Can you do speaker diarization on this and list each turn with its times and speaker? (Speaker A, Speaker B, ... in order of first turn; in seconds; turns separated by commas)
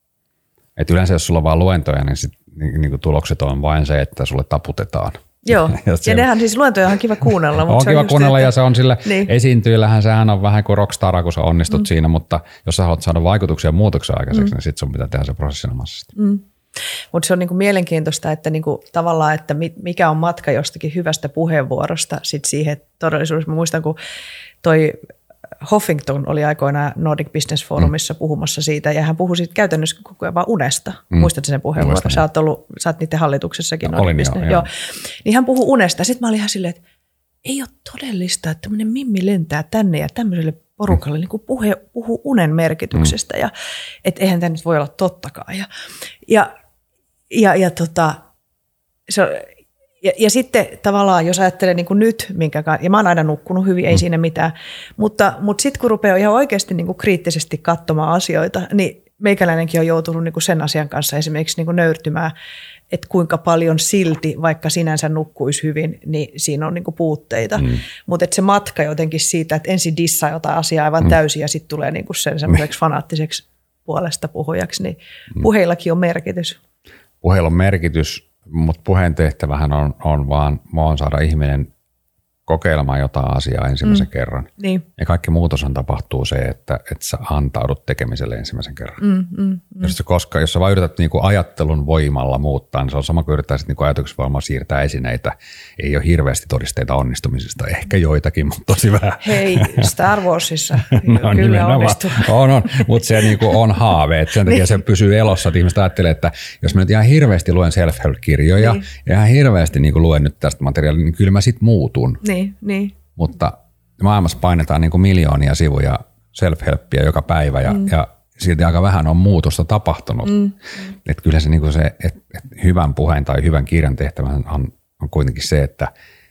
Speaker A: 0.8-6.3, Speaker B: 5.4-8.5, Speaker A: 7.6-16.1, Speaker B: 9.1-9.3, Speaker B: 16.2-16.4, Speaker B: 17.1-24.0, Speaker B: 24.6-25.1, Speaker B: 25.6-36.8, Speaker A: 31.1-32.2, Speaker A: 33.8-34.7, Speaker B: 37.5-43.5, Speaker B: 44.0-45.7, Speaker B: 47.3-48.2, Speaker B: 49.1-49.5, Speaker B: 50.0-62.3, Speaker B: 62.9-76.6, Speaker A: 77.2-81.7, Speaker A: 82.5-89.0, Speaker B: 84.6-84.8, Speaker B: 89.0-89.9, Speaker A: 89.8-99.9, Speaker B: 99.2-103.5, Speaker A: 100.8-112.2, Speaker B: 112.2-113.0, Speaker A: 113.2-125.9, Speaker B: 120.3-120.5